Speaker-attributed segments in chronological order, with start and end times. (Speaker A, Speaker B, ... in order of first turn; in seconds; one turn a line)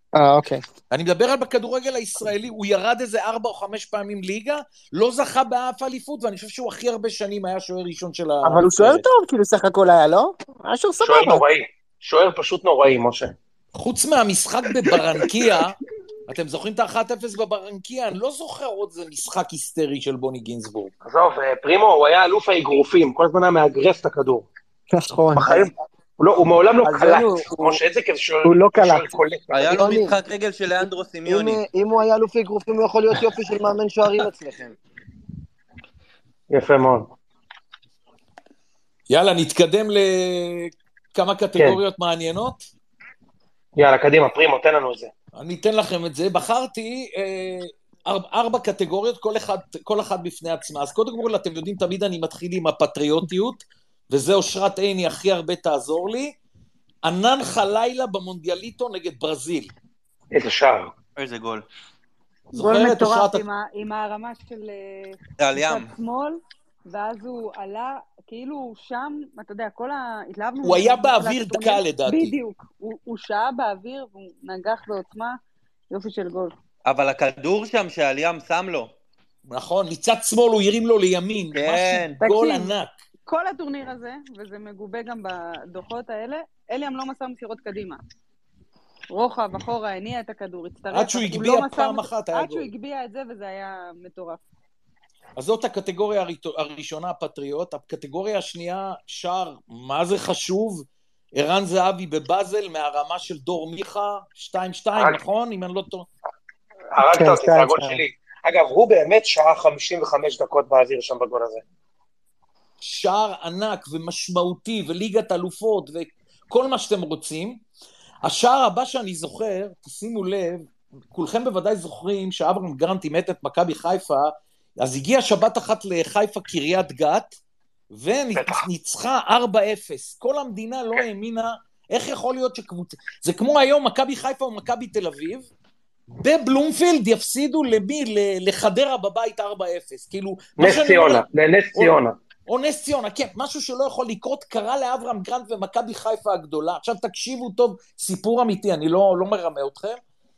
Speaker A: 0.1-0.6
Speaker B: 0.9-9.0
Speaker A: 8.4-11.4
Speaker C: 11.0-13.3
Speaker B: 13.7-20.9
Speaker C: 21.0-24.5
Speaker A: 24.9-25.6
Speaker C: 25.4-30.0
Speaker D: 26.8-27.8
Speaker A: 28.4-29.1
Speaker E: 29.5-31.6
Speaker D: 29.7-30.1
Speaker D: 31.2-34.7
Speaker C: 36.5-37.1
Speaker B: 39.1-42.6
Speaker C: 43.8-45.1
Speaker B: 45.4-56.3
Speaker B: 57.0-59.7
Speaker C: 60.3-60.9
Speaker E: 61.2-61.6
Speaker B: 62.5-63.4
Speaker F: 62.5-75.4
Speaker E: 65.4-65.9
Speaker B: 70.6-72.3
Speaker F: 75.9-76.5
Speaker E: 76.8-78.9
Speaker B: 79.5-82.9
Speaker E: 81.5-82.2
Speaker F: 82.2-82.7
Speaker F: 83.2-88.0
Speaker F: 89.1-94.4
Speaker B: 90.9-92.7
Speaker B: 95.3-106.0
Speaker C: 106.9-111.6
Speaker A: 107.0-108.0
Speaker B: 112.8-117.6
Speaker B: 118.2-127.4
Speaker B: 127.9-135.5
Speaker C: 128.3-128.6
Speaker B: 136.1-141.9
Speaker C: 140.6-142.2
Speaker B: 142.5-150.0